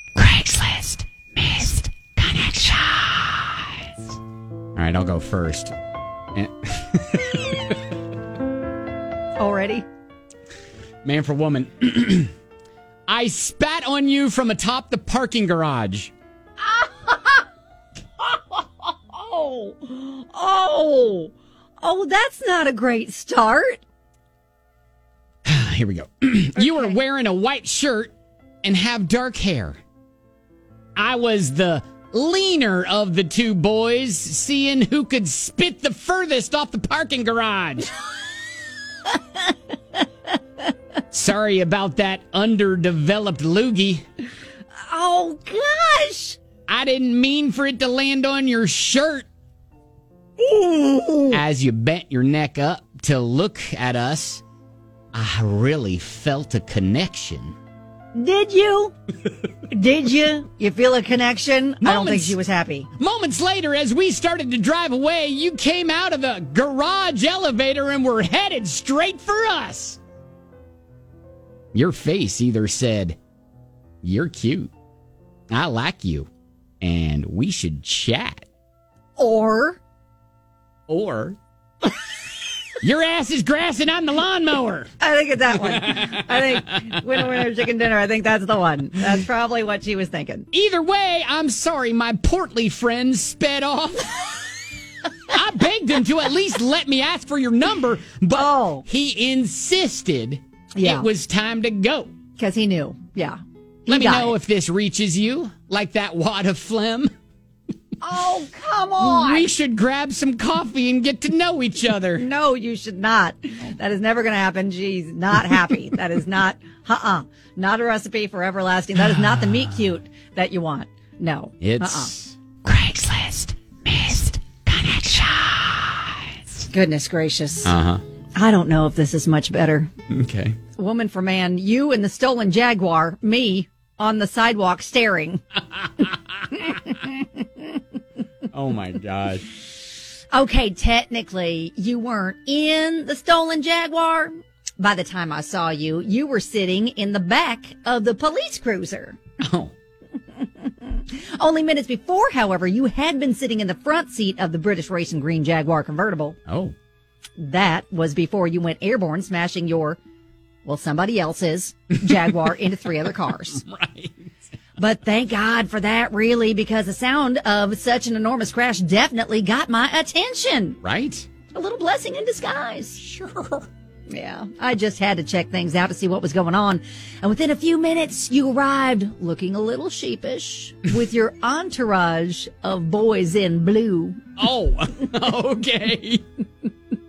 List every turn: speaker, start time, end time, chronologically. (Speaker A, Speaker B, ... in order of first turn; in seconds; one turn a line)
Speaker A: 0.2-3.9
Speaker A: 4.8-5.7
Speaker A: 6.3-7.8
Speaker B: 9.4-9.9
Speaker A: 11.0-12.3
Speaker A: 13.1-16.1
Speaker B: 16.6-17.4
Speaker B: 18.2-23.8
Speaker A: 25.4-29.8
Speaker B: 26.6-27.0
Speaker A: 30.9-37.9
Speaker B: 39.0-40.0
Speaker A: 41.1-44.0
Speaker B: 44.8-46.4
Speaker A: 46.7-49.3
Speaker B: 50.4-51.4
Speaker A: 51.3-54.4
Speaker A: 55.1-57.6
Speaker B: 58.1-59.0
Speaker B: 59.7-62.9
Speaker A: 61.8-62.4
Speaker A: 63.0-70.0
Speaker A: 71.7-73.2
Speaker A: 74.0-74.7
Speaker A: 75.5-76.3
Speaker A: 76.8-78.5
Speaker B: 79.2-79.8
Speaker A: 80.9-81.4
Speaker A: 82.8-84.9
Speaker B: 85.0-90.5
Speaker A: 85.6-87.3
Speaker A: 90.5-94.3
Speaker A: 95.3-102.1
Speaker B: 98.3-98.9
Speaker B: 100.8-101.1
Speaker B: 102.4-104.4
Speaker A: 103.9-107.1
Speaker B: 108.0-109.5
Speaker A: 109.0-112.3
Speaker B: 112.1-122.1
Speaker A: 121.6-126.2
Speaker B: 126.7-127.8
Speaker A: 127.6-128.0
Speaker B: 128.3-129.9
Speaker A: 130.1-130.6
Speaker B: 130.8-135.4
Speaker B: 136.5-137.8
Speaker A: 138.5-139.5
Speaker B: 140.3-149.2
Speaker A: 149.4-149.7
Speaker B: 150.3-156.4
Speaker A: 156.5-156.7
Speaker B: 157.4-160.0
Speaker B: 160.6-163.6
Speaker A: 163.5-164.3
Speaker B: 164.8-170.8
Speaker A: 170.8-171.3
Speaker B: 171.5-173.0
Speaker A: 173.0-173.7
Speaker B: 174.1-184.2
Speaker A: 184.4-186.2